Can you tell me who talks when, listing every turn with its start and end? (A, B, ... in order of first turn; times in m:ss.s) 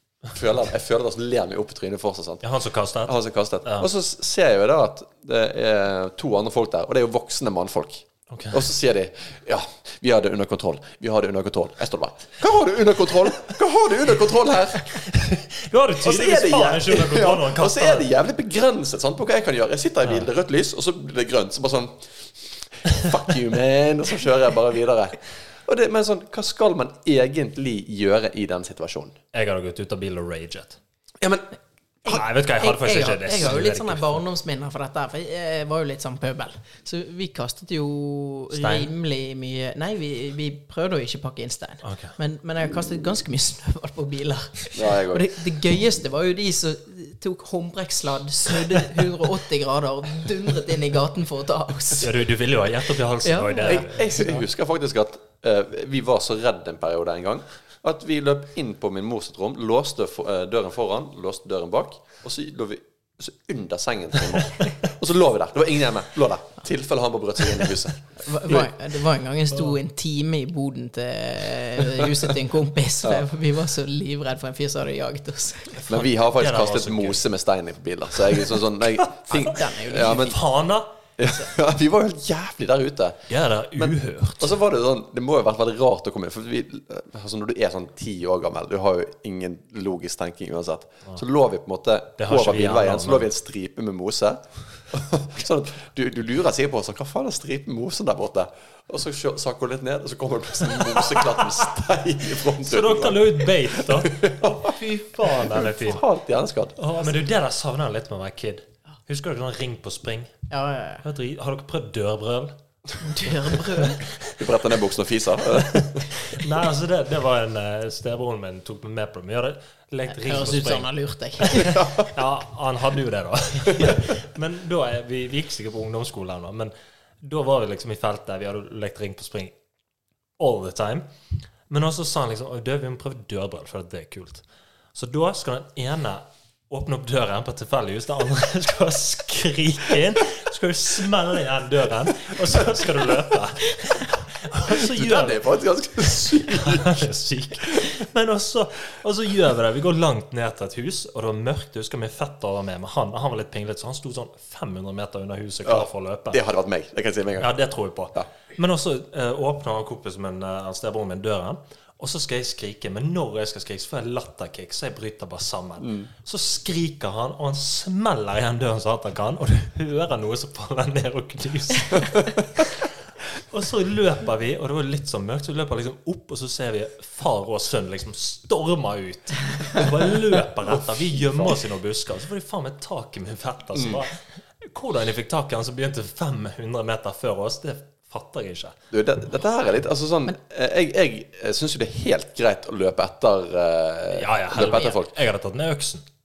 0:00.3-0:02.4 A
0:02.4-0:03.9 B
0:03.0-0:15.0 A
0:08.3-0:08.6 B
0:14.9-0:18.1 B
0:16.0-0:29.2 A
0:29.3-0:30.8 B
0:31.2-0:31.5 A
0:32.0-0:52.2 C
0:32.1-0:34.2 B
0:38.5-0:38.9 B
0:41.8-0:42.1 B
0:44.7-0:45.3 A
0:52.0-0:54.4 B
0:53.2-0:53.9 C
0:53.6-1:08.7 A
1:08.2-1:15.8 C
1:15.8-1:17.2 B
1:15.9-1:20.4 A
1:18.3-1:20.9 B
1:19.3-1:20.4 C
1:21.2-1:46.8 A
1:23.3-1:24.5 B
1:32.2-1:33.3 B
1:40.8-1:41.6 B
1:42.6-1:46.0 B
1:46.8-1:50.3 B
1:50.5-1:51.0 C
1:51.0-1:52.5 B
1:53.0-1:54.0 C
1:53.5-1:54.3 B
1:54.3-1:56.1 A
1:55.6-2:09.5 B
2:00.1-2:01.8 C
2:01.5-2:02.1 A
2:10.4-2:11.0 B
2:11.7-2:14.4 B
2:14.9-2:36.4 B
2:24.6-2:27.1 A
2:35.6-2:37.5 A
2:37.4-3:08.8 B
2:45.8-2:46.1 A
3:03.7-3:04.0 A
3:08.9-3:15.1 A
3:14.1-3:16.0 B